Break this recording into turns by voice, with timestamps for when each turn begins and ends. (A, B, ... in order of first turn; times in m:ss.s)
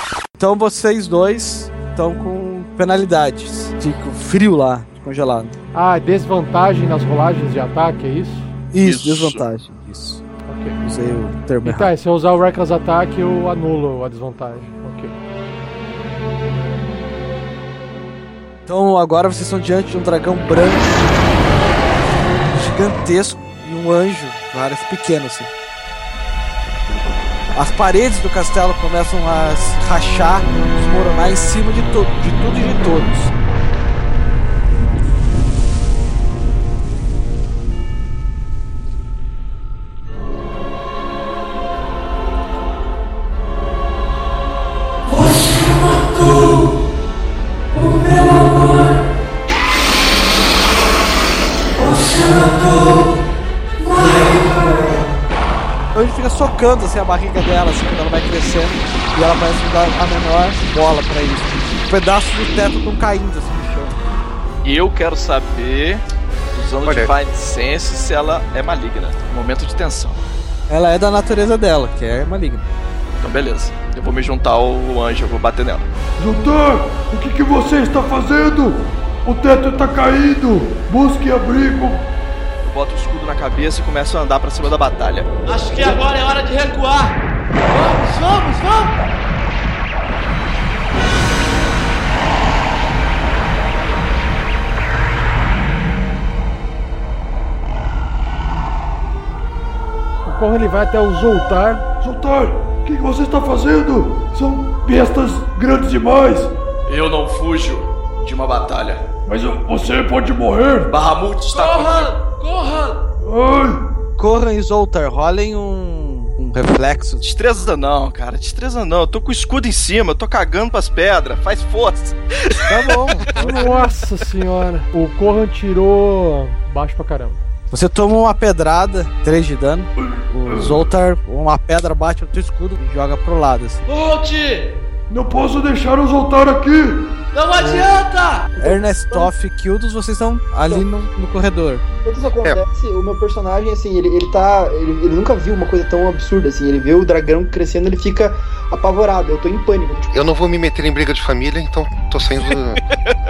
0:00.4-0:05.5 A
0:05.7-0:08.5 B
0:08.7-0:10.2 A
0:08.8-0:09.5 C
0:10.5-0:10.8 B
0:10.8-0:11.9 A
0:11.6-0:15.1 B
0:18.7-0:21.1 A
0:22.5-0:25.5 A
0:27.5-0:33.3 A
0:45.2-0:46.5 A
0:47.8-0:48.9 A
0:51.8-0:53.0 A
0:53.9-0:54.9 A
0:55.9-1:04.0 A
1:04.6-1:10.2 C
1:06.8-1:07.1 D
1:10.7-1:12.7 A
1:13.2-1:15.9 C
1:16.2-1:22.0 E
1:22.6-1:25.3 C
1:25.5-1:29.0 F
1:40.3-1:41.9 B
1:42.0-1:46.5 E
1:46.9-1:49.0 C
1:49.3-1:50.9 E
1:50.9-1:52.1 C
1:51.5-1:53.0 F
1:53.2-1:53.8 E
1:54.2-1:57.2 A
1:57.2-2:02.2 C
2:02.7-2:03.3 A
2:03.3-2:07.4 B
2:07.7-2:13.9 A
2:10.0-2:10.8 E
2:13.9-2:14.7 F
2:15.1-2:17.1 E
2:17.3-2:18.5 F
2:18.5-2:19.3 G
2:18.6-2:21.8 A
2:22.0-2:30.1 G
2:30.1-2:32.8 D
2:32.4-2:33.1 C